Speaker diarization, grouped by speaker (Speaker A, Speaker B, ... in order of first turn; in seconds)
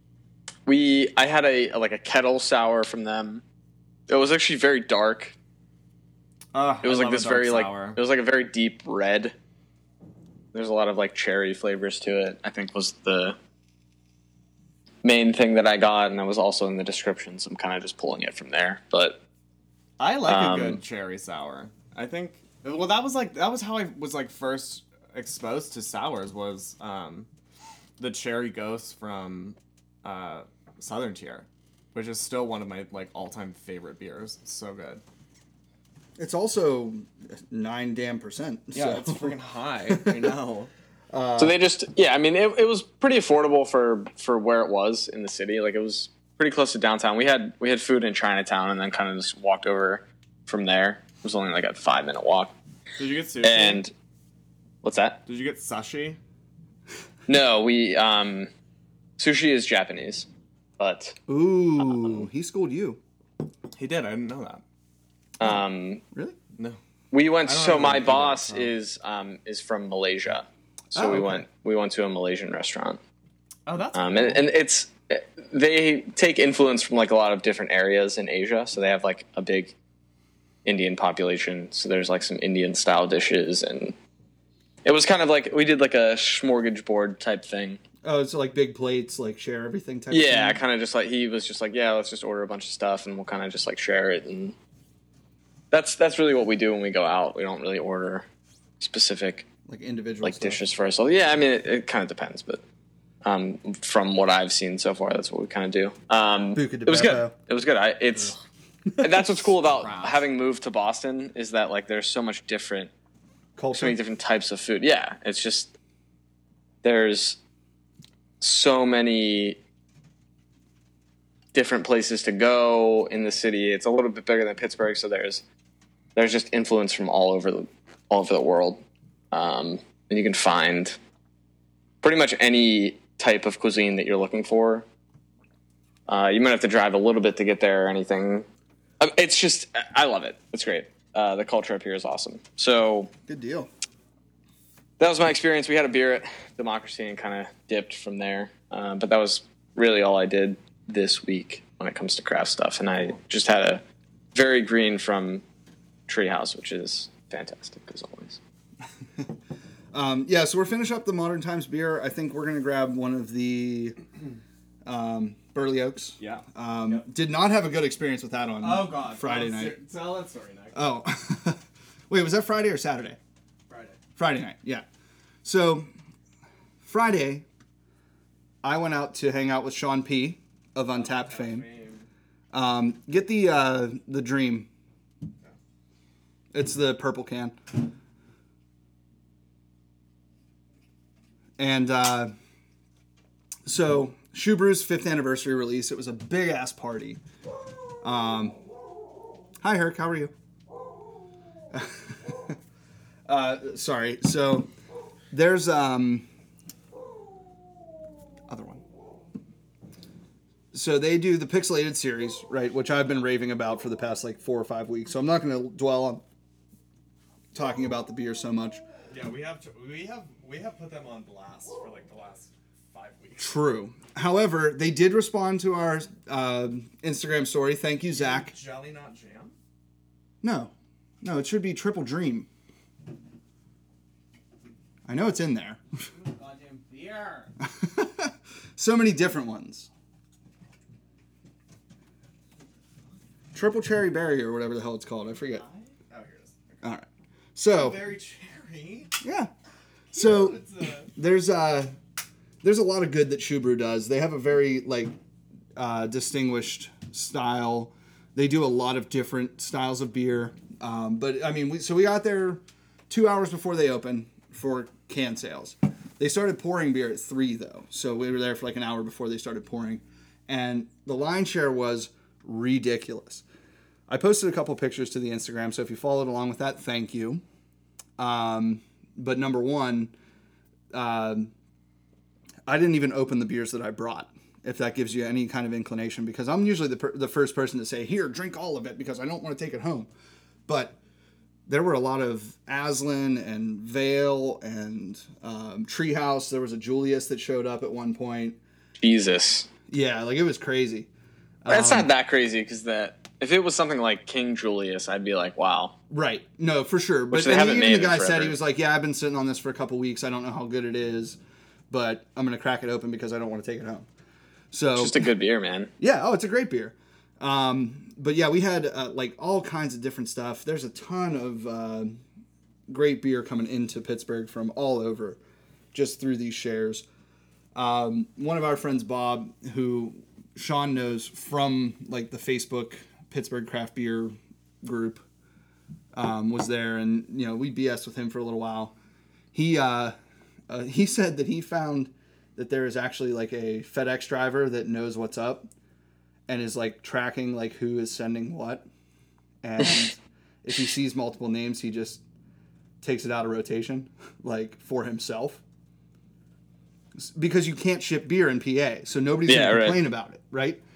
Speaker A: 0.7-3.4, 4.1-5.3, 6.8-9.3, 10.5-13.4, 15.0-19.2, 20.3-20.8, 41.4-52.5, 53.4-53.9, 54.8-55.2, 57.3-58.5, 59.2-60.3, 60.8-61.2, 65.4-66.0, 67.1-73.0, 73.9-79.8, 80.7-84.0, 84.8-87.8, 90.1-94.5, 95.7-98.3, 98.8-99.5, 100.2-102.6, 103.2-108.4, 109.0-112.9, 113.7-115.7, 116.8-117.4, 118.4-119.6, 121.5-125.4, 126.2-131.0, 132.0-134.8, 136.1-138.5, 139.0-143.1, 145.0-153.8, 154.3-155.4, 156.1-158.4, 299.0-299.7, 301.7-305.9, 307.3-308.6, 315.0-315.9, 359.5-360.0
Speaker B: 6.5-8.0, 20.0-27.3, 28.0-35.0, 38.7-40.7, 53.0-53.8, 55.3-56.2, 63.8-64.6, 67.5-68.7, 73.7-74.5, 109.4-110.2, 166.2-167.0, 168.6-170.8, 173.7-174.0, 180.9-182.1, 219.1-223.5, 228.1-229.6, 236.1-237.5, 245.5-246.8, 247.7-249.1, 250.1-251.1
Speaker C: 36.2-39.4, 39.9-40.2, 41.1-41.6, 61.3-63.0, 66.1-66.4, 71.0-71.5, 88.0-90.6, 99.7-100.6, 106.5-107.3, 113.6-114.0, 143.3-143.7, 159.9-164.0, 164.8-169.8, 170.8-173.2, 174.2-174.8, 175.4-175.9, 176.8-177.4, 178.6-181.7, 182.5-184.7, 186.5-187.8, 191.6-192.3, 193.7-197.2, 198.0-198.6, 199.6-200.3, 201.7-202.6, 203.3-204.7, 205.3-206.3, 208.5-208.8, 210.7-216.2, 217.5-218.8, 223.4-228.5, 230.4-232.5, 235.1-235.8, 237.7-239.9, 243.5-245.6, 246.8-248.0, 249.2-249.5, 250.1-250.6, 251.1-252.0, 252.6-255.1, 255.8-273.4, 274.1-277.4, 278.2-280.1, 280.9-281.5, 282.7-290.1, 290.7-291.0, 291.7-298.6, 299.9-301.1, 301.6-302.1, 306.1-311.4, 311.9-314.1, 314.7-315.2, 316.0-322.2, 322.9-325.4, 325.9-327.1, 327.8-335.2, 336.1-338.9, 339.5-340.1, 340.7-345.7, 346.5-348.9, 349.6-352.2, 353.0-355.6, 357.2-360.8